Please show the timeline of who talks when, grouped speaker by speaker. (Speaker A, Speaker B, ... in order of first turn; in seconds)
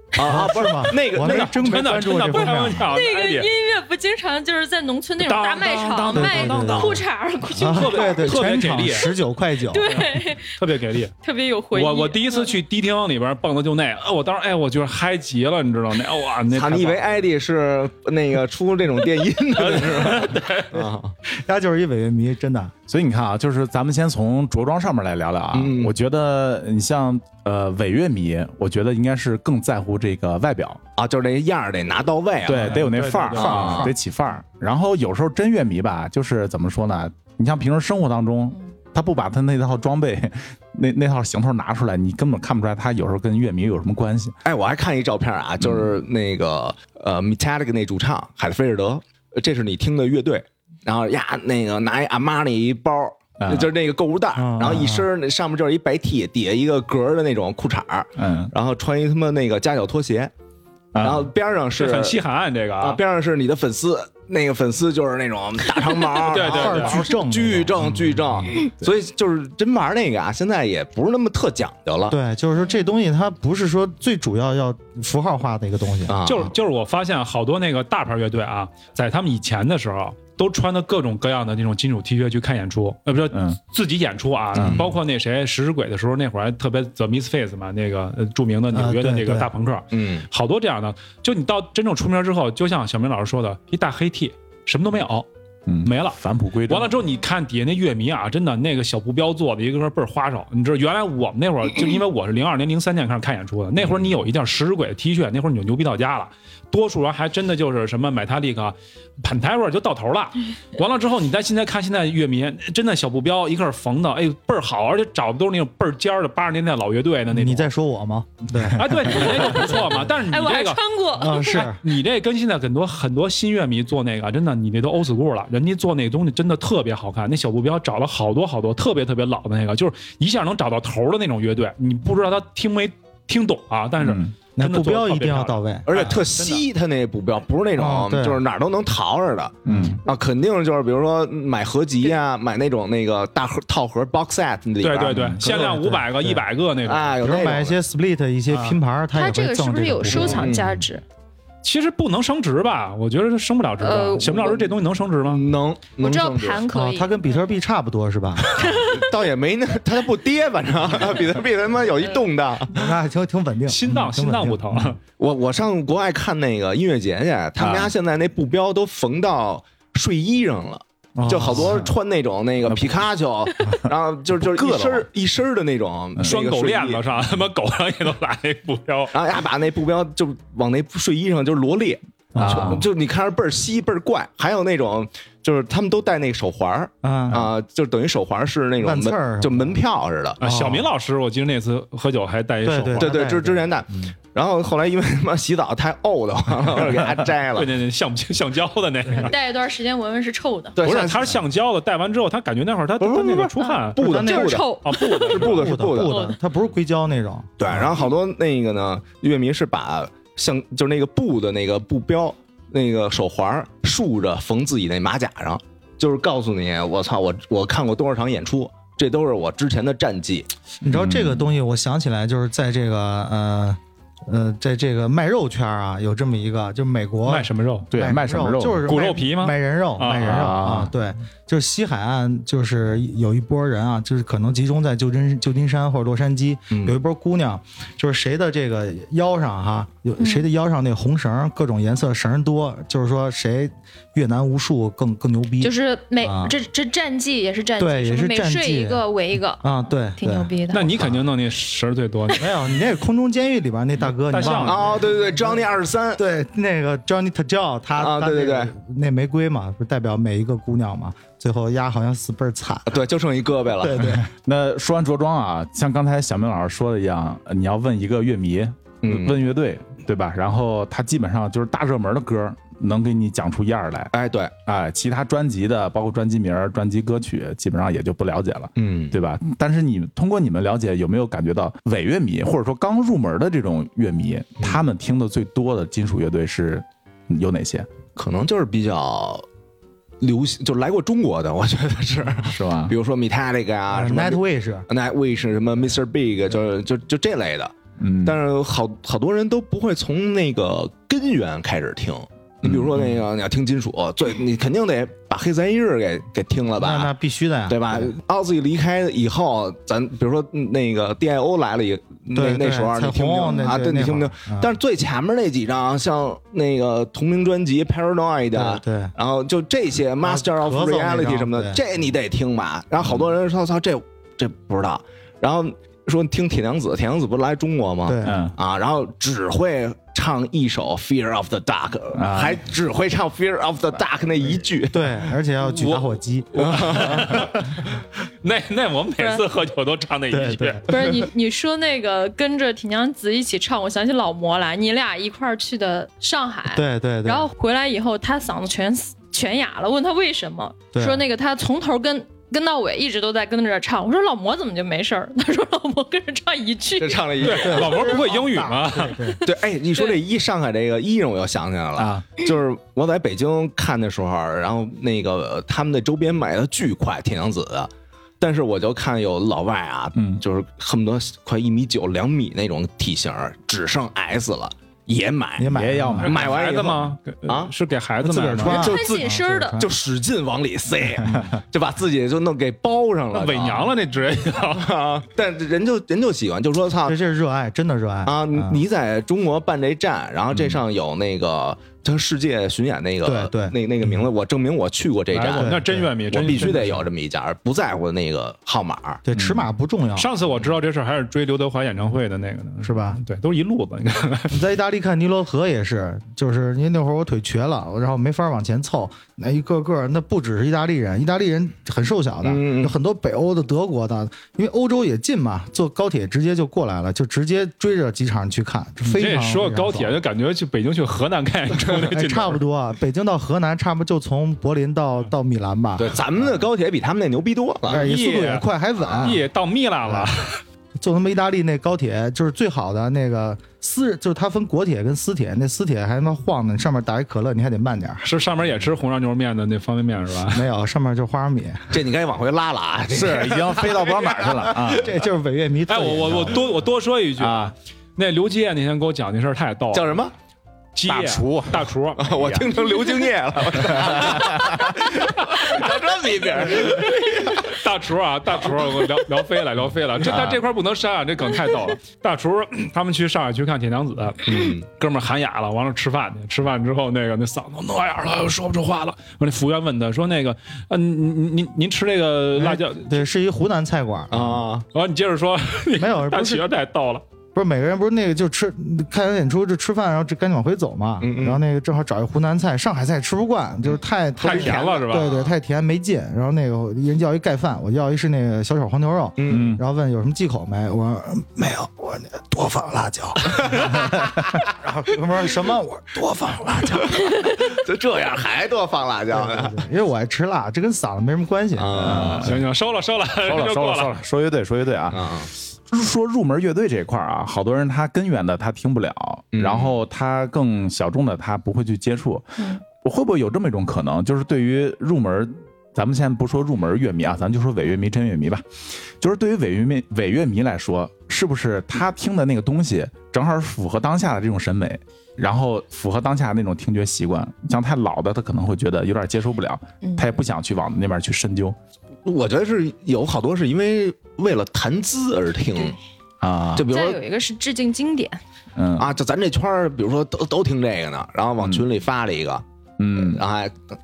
Speaker A: 0.1-1.7, 6.2-7.0, 16.5-21.1, 25.5-25.9, 31.0-33.9, 44.4-60.3, 61.0-62.2, 62.8-72.2, 76.1-76.5, 84.6-84.9, 89.9-90.2, 135.9-145.8, 146.8-147.8, 150.1-150.7, 155.2-156.6, 158.7-162.9, 165.2-177.0, 179.1-190.4, 193.0-197.7, 200.8-201.4, 203.0-206.3, 207.6-220.5, 236.7-237.0, 254.5-256.2, 257.9-258.7, 262.9-264.2, 269.0-269.4, 274.1-274.5, 278.8-279.1, 288.1-289.4, 290.2-307.1, 307.7-335.1, 336.6-337.3, 357.0-358.2, 359.4-377.7, 378.6-383.9, 384.7-387.2, 388.2-399.2, 412.4-412.9, 426.0-428.1, 429.1-429.3, 441.9-444.9, 449.9-450.3, 452.2-457.7, 464.4-464.8, 474.3-474.9, 481.2-481.6, 484.4-485.0, 489.4-489.8, 496.4-499.9, 501.7-502.6, 505.1-505.5, 509.5-509.9, 532.2-536.0, 536.7-537.2, 539.0-542.6, 543.2-543.7
Speaker B: 0.2-2.9, 6.1-7.0, 7.5-10.1, 20.8-22.7, 54.4-55.1, 66.4-68.4, 72.1-76.4, 88.7-89.5, 117.3-120.0, 121.2-121.8, 134.6-136.1, 137.8-138.4, 139.7-140.0, 145.4-146.4, 147.2-150.7, 156.7-158.7, 162.7-164.9, 171.2-171.9, 182.3-182.8, 187.0-187.5, 188.8-189.8, 190.4-190.9, 192.6-194.1, 204.0-204.6, 205.3-207.8, 220.8-246.5, 247.8-249.0, 249.6-251.1, 252.3-255.6, 256.2-263.0, 263.8-264.3, 293.9-294.9, 306.8-308.1, 312.3-314.7, 318.5-319.1, 320.2-321.8, 328.1-328.4, 334.9-337.8, 340.3-340.9, 346.7-347.5, 350.9-351.2, 357.6-359.4, 375.6-376.4, 378.2-379.9, 381.2-381.6, 387.1-388.8, 393.2-393.8, 395.5-396.9, 399.2-400.3, 402.8-403.2, 404.5-420.2, 421.9-426.5, 427.9-429.4, 430.1-430.3, 431.0-438.3, 440.5-441.9, 444.8-446.6, 472.6-474.6, 476.0-476.6, 477.5-497.1, 499.3-502.3
Speaker C: 1.1-3.5, 5.2-6.6, 7.6-9.1, 9.8-11.1, 11.7-17.1, 19.5-20.7, 32.5-33.9, 61.7-63.0, 66.2-67.0, 76.2-95.3, 95.8-117.7, 118.7-136.6, 144.8-147.1, 148.5-148.8, 151.6-155.4, 163.7-165.0, 174.4-175.0, 176.2-179.1, 190.4-193.2, 197.5-199.3, 200.8-205.7, 227.2-227.9, 228.8-230.5, 250.7-252.6, 254.1-255.0, 335.6-337.8, 338.4-340.8, 357.4-359.4, 376.2-378.9, 383.3-385.1, 395.3-397.0, 400.1-404.6, 419.0-422.6, 427.9-428.7, 429.2-430.6, 438.2-440.6, 445.9-450.2, 450.9-452.3, 455.5-455.9, 456.4-473.3, 474.9-477.2, 484.4-485.5, 502.3-504.1
Speaker D: 2.7-8.4, 9.7-10.6, 11.2-12.5, 119.4-119.7, 120.3-121.7, 149.1-151.0, 153.8-154.6, 156.0-157.4, 158.6-159.1, 199.1-200.8, 203.6-206.4, 240.2-240.5, 245.6-249.6, 250.2-251.0, 339.2-339.4, 340.9-357.6, 378.6-379.8, 530.0-530.3, 536.9-538.4
Speaker E: 22.9-30.8, 32.4-44.3, 53.4-53.7, 58.2-58.5, 60.9-61.3, 83.3-83.6, 84.5-84.9, 95.7-97.0, 134.0-134.3, 139.6-140.0, 145.1-145.4, 167.6-167.9, 172.6-173.0, 182.4-182.8, 220.9-221.5, 227.9-228.9, 230.2-230.9, 264.4-274.1, 274.6-287.9, 292.4-292.9, 298.0-298.4, 302.6-303.1, 328.2-328.5, 332.1-332.6, 361.9-362.3, 370.1-370.4, 375.7-376.3, 399.3-399.7, 443.1-445.1, 447.4-447.7, 451.0-452.7, 453.7-454.9, 460.2-460.6, 489.5-489.8, 502.0-502.6, 503.4-512.5, 513.0-518.6, 519.2-531.8, 536.4-536.9, 538.8-539.1, 543.0-543.4